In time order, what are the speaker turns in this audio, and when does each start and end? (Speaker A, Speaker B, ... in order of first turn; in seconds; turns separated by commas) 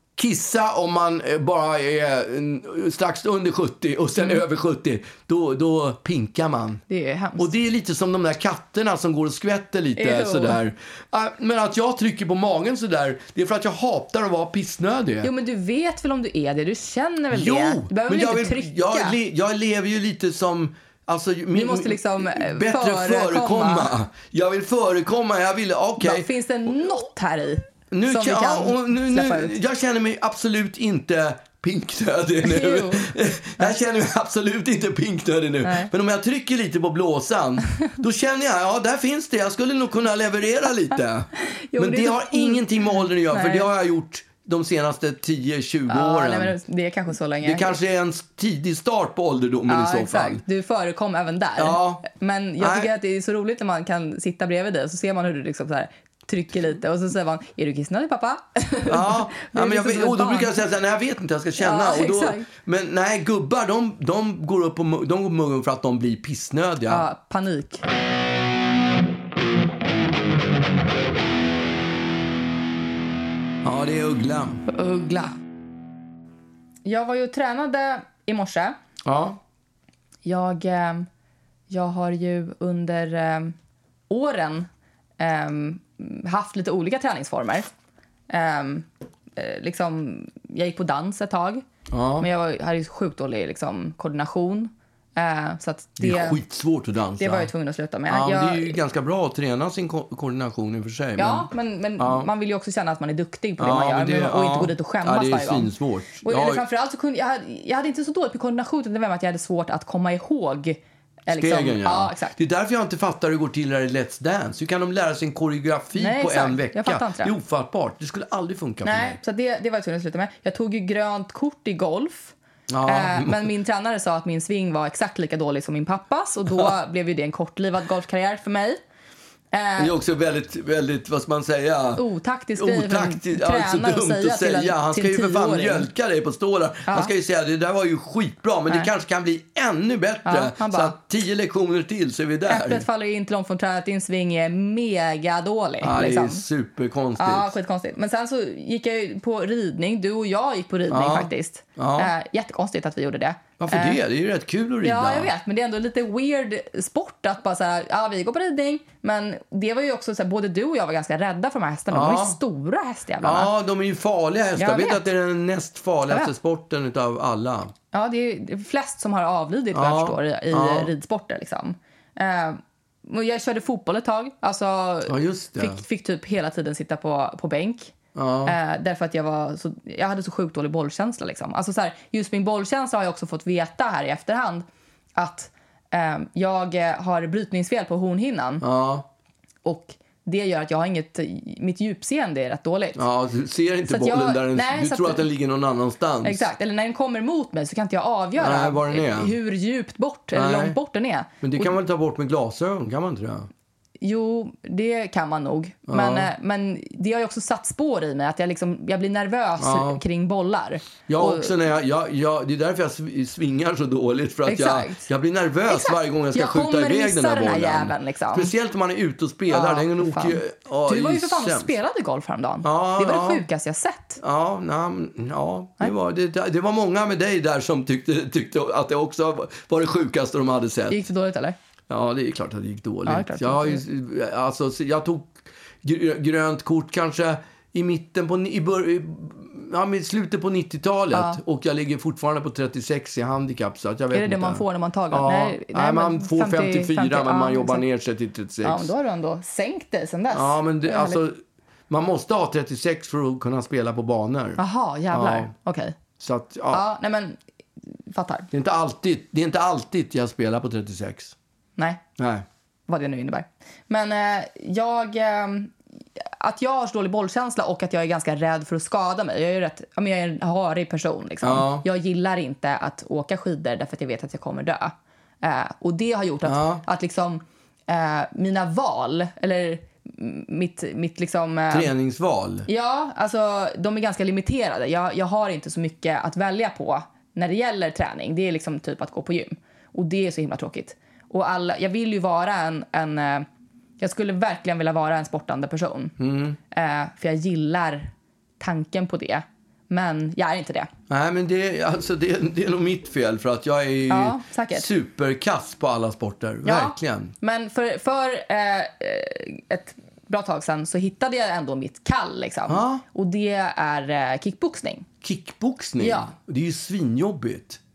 Speaker A: 0.2-6.8, Speaker B: 6.9-7.5, Speaker A: 7.4-15.3, Speaker B: 10.0-10.6, Speaker B: 15.2-19.1, Speaker A: 17.3-26.3, Speaker B: 21.5-23.9, Speaker B: 26.0-29.6, Speaker A: 27.9-46.6, Speaker B: 32.4-33.7, Speaker B: 35.6-35.9, Speaker B: 41.5-43.7, Speaker B: 45.9-47.7, Speaker A: 47.4-50.4, Speaker B: 49.7-60.6, Speaker A: 51.6-52.0, Speaker A: 52.6-52.9, Speaker A: 58.9-67.1, Speaker B: 61.6-62.5, Speaker B: 66.9-67.8, Speaker A: 73.6-74.6, Speaker B: 74.7-75.3, Speaker B: 76.8-78.8, Speaker A: 79.0-79.4, Speaker B: 80.2-81.1, Speaker B: 81.7-83.5, Speaker B: 84.1-84.7, Speaker B: 85.2-87.7, Speaker B: 88.3-91.6, Speaker A: 91.9-92.3, Speaker B: 92.2-96.4, Speaker A: 96.0-97.5, Speaker B: 97.2-98.8, Speaker A: 98.1-102.3, Speaker B: 101.2-112.4, Speaker A: 103.6-106.6, Speaker A: 111.3-119.2, Speaker B: 115.9-117.3, Speaker B: 118.8-128.8, Speaker A: 122.7-123.5, Speaker B: 129.5-129.9, Speaker A: 129.8-132.0, Speaker B: 132.0-135.9, Speaker A: 132.6-142.8, Speaker B: 136.9-137.1, Speaker B: 140.2-140.9, Speaker B: 142.5-146.4, Speaker A: 145.8-147.5, Speaker B: 147.2-154.0, Speaker A: 150.9-152.1, Speaker A: 153.6-155.3, Speaker B: 154.8-163.5, Speaker A: 161.9-162.4, Speaker A: 163.2-167.7, Speaker B: 164.6-165.0, Speaker B: 167.9-188.6, Speaker A: 169.7-170.9, Speaker A: 175.1-175.8, Speaker A: 178.1-178.5, Speaker A: 188.6-189.1, Speaker B: 189.6-193.0, Speaker A: 192.9-196.5, Speaker B: 193.9-195.2, Speaker B: 196.2-201.7, Speaker A: 198.4-199.3, Speaker A: 200.3-200.8, Speaker A: 201.4-203.5, Speaker B: 204.0-211.5, Speaker A: 205.9-206.3, Speaker A: 209.6-210.0, Speaker A: 211.1-221.7, Speaker B: 214.4-215.1, Speaker B: 215.7-218.5, Speaker B: 219.5-224.2, Speaker A: 222.6-223.4, Speaker A: 224.2-231.0, Speaker B: 230.9-231.6, Speaker A: 231.9-248.9, Speaker B: 233.1-233.8, Speaker B: 241.1-241.4, Speaker B: 244.1-247.8, Speaker B: 248.6-251.2, Speaker A: 250.3-255.5, Speaker B: 254.6-255.9, Speaker A: 256.2-256.8, Speaker B: 256.7-257.4, Speaker B: 258.1-258.5, Speaker A: 258.5-261.3, Speaker B: 261.8-262.0, Speaker A: 262.2-262.4, Speaker B: 262.9-281.9, Speaker A: 271.4-271.8, Speaker A: 276.4-276.8, Speaker A: 281.7-282.7, Speaker B: 282.7-293.4, Speaker B: 294.0-296.2, Speaker A: 296.2-296.6, Speaker B: 296.7-300.9, Speaker A: 301.1-307.3, Speaker B: 304.1-304.9, Speaker B: 306.6-315.1, Speaker A: 312.7-313.0, Speaker A: 315.2-317.8, Speaker B: 316.0-316.3